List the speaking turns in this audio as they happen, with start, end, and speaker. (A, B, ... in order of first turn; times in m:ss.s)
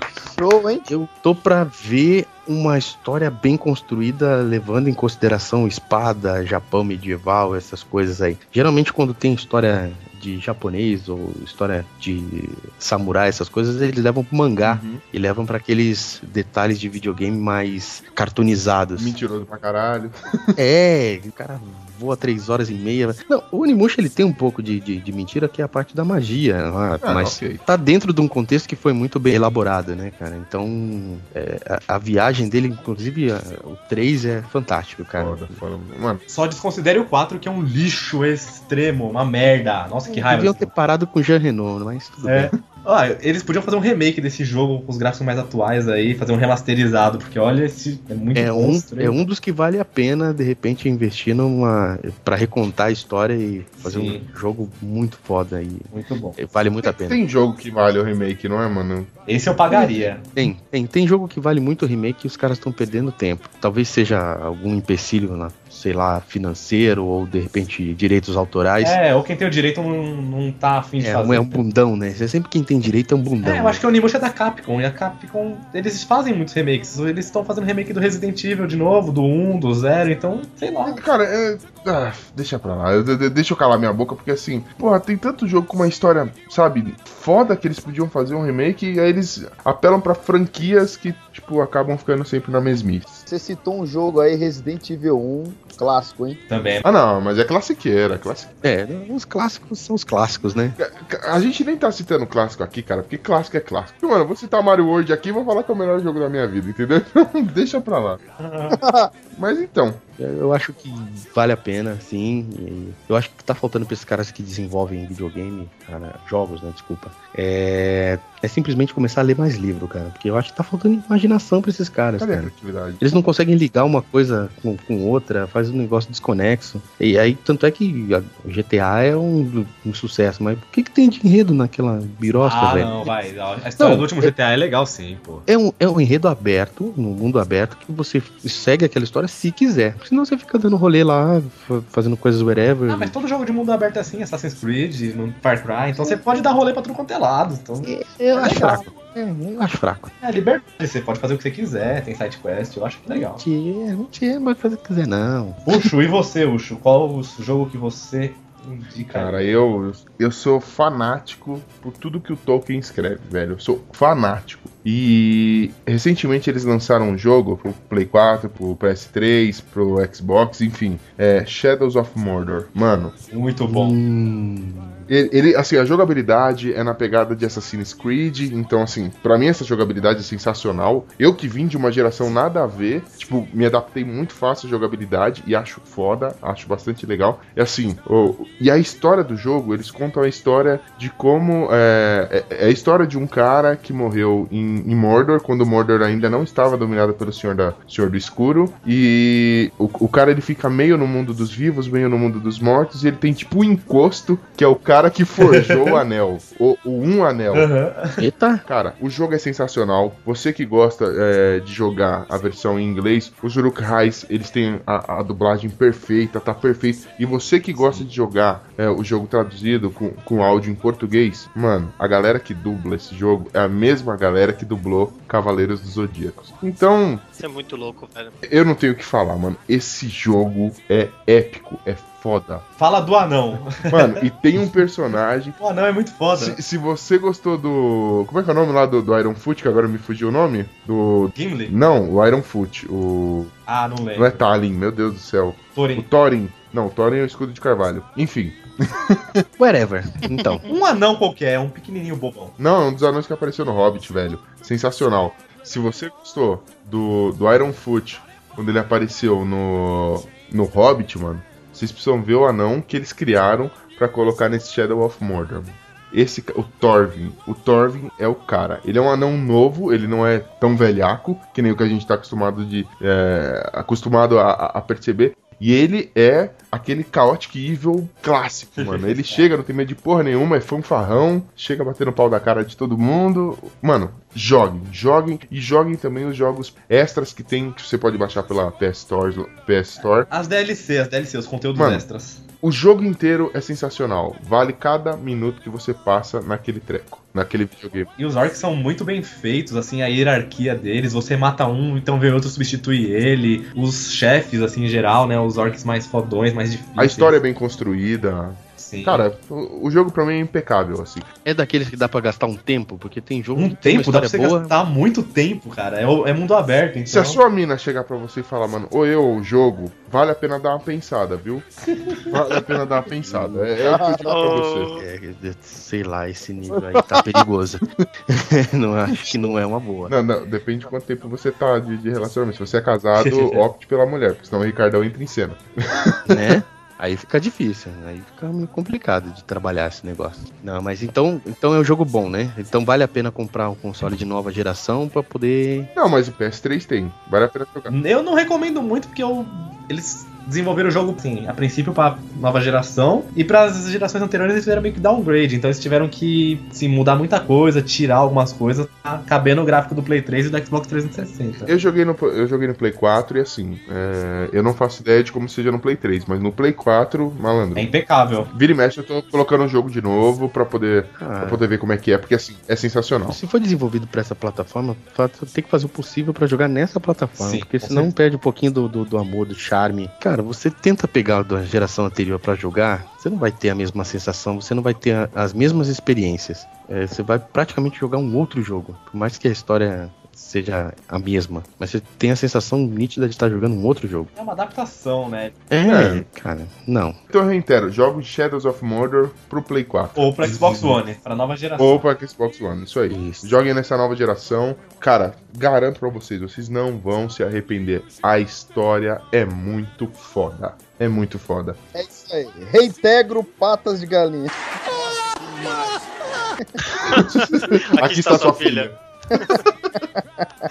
0:00.2-0:00.9 A
0:00.9-0:19.1 B
0:14.6-0:15.0 C
0:19.0-0:20.2 C
0:20.6-0:35.6 B
0:27.0-0:27.6 C
0:35.2-0:36.2 C
0:36.3-0:40.7 D
0:40.1-0:42.5 B
0:42.2-0:49.2 D
0:48.4-0:57.2 B
0:53.8-0:54.2 D
0:55.9-0:56.4 D
0:56.8-0:59.1 C
0:59.3-1:00.3 D
0:59.7-1:09.0 B
1:08.8-1:11.6 D
1:11.0-1:13.8 B
1:13.4-1:21.0 D
1:20.9-1:33.2 C
1:33.3-1:36.4 A
1:36.5-1:36.9 D
1:36.8-1:38.5 C
1:38.6-1:40.8 B
1:40.8-1:48.2 C
1:48.4-1:48.8 D
1:48.7-1:49.1 A
1:49.3-1:50.0 C
1:50.2-2:13.1 B
2:02.2-2:03.1 C
2:12.4-2:15.5 D
2:13.8-2:14.3 B
2:15.5-2:23.1 B
2:22.9-2:28.8 D
2:27.8-2:30.1 B
2:30.2-2:33.4 D
2:33.1-2:35.9 B
2:35.6-2:39.6 D
2:39.1-2:53.1 C
2:53.3-2:54.0 D
2:53.7-2:55.0 B
2:55.1-3:27.7 C
3:25.4-3:26.0 D
3:27.5-3:28.2 D
3:28.2-3:28.6 B
3:28.6-3:47.2 C
3:47.4-3:48.4 E
3:48.4-3:52.6 C
3:52.8-3:54.6 D
3:53.9-3:55.6 C
3:55.6-3:56.6 D
3:56.4-4:03.6 C
4:01.4-4:01.7 D
4:03.7-4:04.4 D
4:04.1-4:09.4 C
4:05.8-4:06.1 D
4:09.6-4:10.6 B
4:10.7-4:12.5 D
4:12.6-4:50.3 C
4:38.8-4:39.5 D
4:50.3-4:52.4 D
4:51.8-4:52.0 C
4:52.6-4:58.1 C
4:58.2-5:07.4 D
5:07.0-5:11.3 C
5:08.8-5:09.2 D
5:11.4-5:14.8 B
5:13.6-5:17.4 D
5:17.1-5:21.6 C
5:22.3-5:24.9 C
5:23.2-5:23.7 B
5:23.8-5:24.4 A
5:24.3-5:25.0 E
5:24.9-5:30.1 B
5:30.1-5:36.4 C
5:33.1-5:33.6 D
5:36.3-5:45.9 B
5:45.9-5:47.9 C
5:47.9-6:01.7 D
6:01.6-6:07.9 C
6:07.8-6:08.5 D
6:08.5-6:13.4 C
6:11.2-6:11.6 B
6:13.3-6:34.3 B
6:17.4-6:18.1 D
6:34.4-6:35.6 D
6:35.7-6:37.2 B
6:35.8-6:36.2 C
6:37.3-6:40.3 C
6:40.2-6:42.0 D
6:40.6-6:40.9 B
6:41.8-6:51.8 C
6:43.1-6:43.6 B
6:51.9-6:56.0 A
6:56.6-6:57.2 A
6:57.1-6:59.6 E
6:57.1-6:59.0 C
6:59.3-7:00.5 A